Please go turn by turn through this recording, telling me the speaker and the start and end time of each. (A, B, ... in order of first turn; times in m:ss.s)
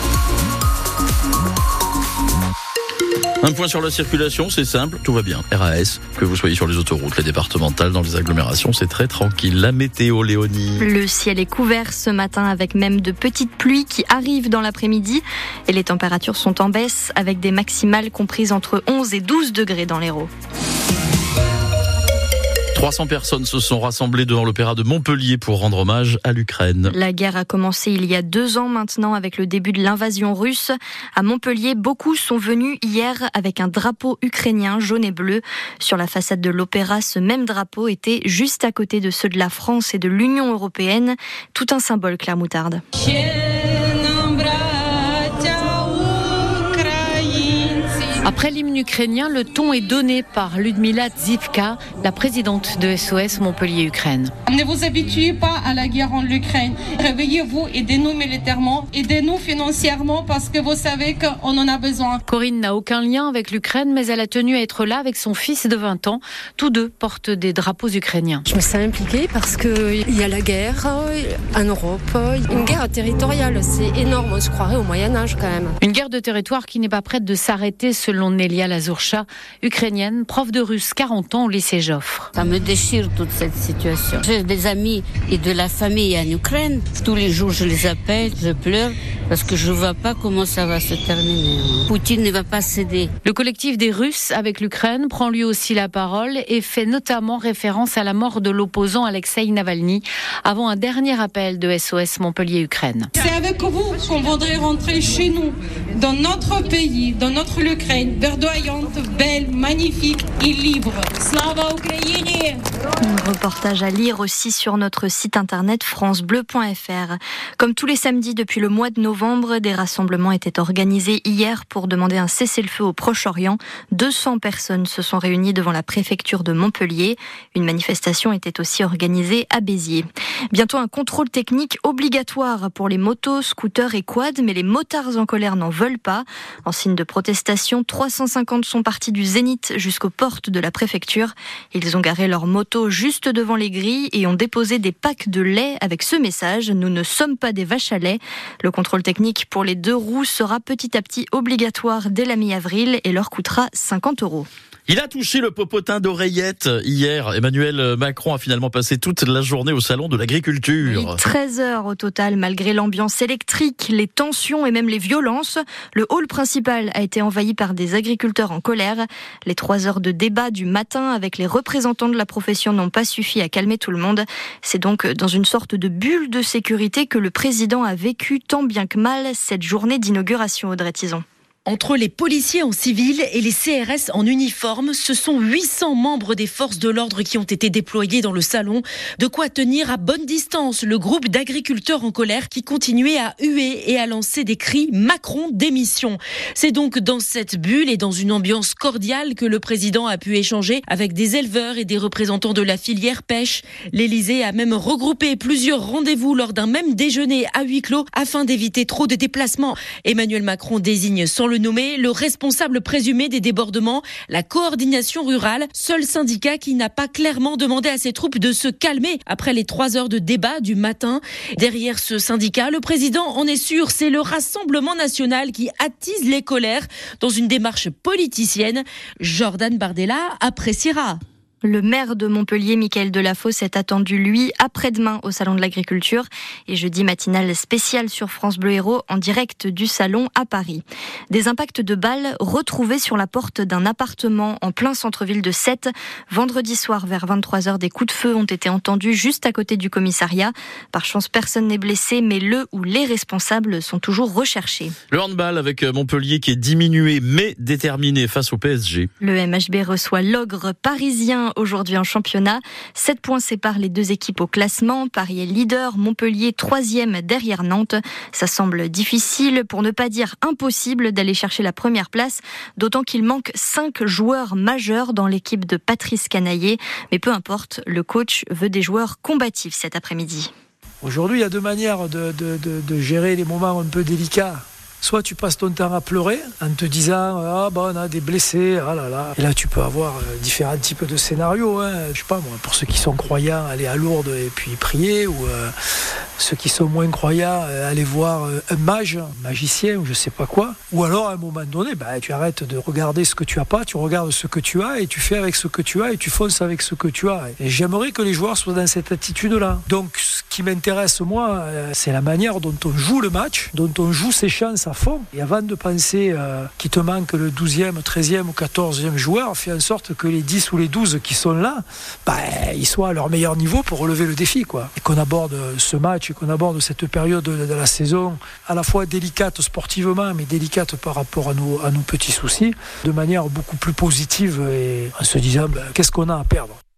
0:03.4-0:10.9 A
0:10.8-0:20.3 B
0:22.7-0:26.9 A
0:26.9-0:42.8 B
0:43.0-0:48.2 C
0:48.2-0:54.3 D
0:54.5-1:02.2 C
1:02.3-1:08.4 D
1:08.5-1:15.8 E
1:15.8-1:22.3 D
1:22.4-1:33.1 F
1:33.2-1:43.1 D
1:43.2-1:52.6 C
1:53.0-2:34.5 B
2:34.9-2:41.2 A
2:40.8-3:01.2 B
3:01.7-3:51.2 G
3:51.6-4:14.9 B
4:15.1-4:19.1 A
4:19.2-4:40.5 B
4:41.0-4:55.7 H
4:56.4-5:36.8 H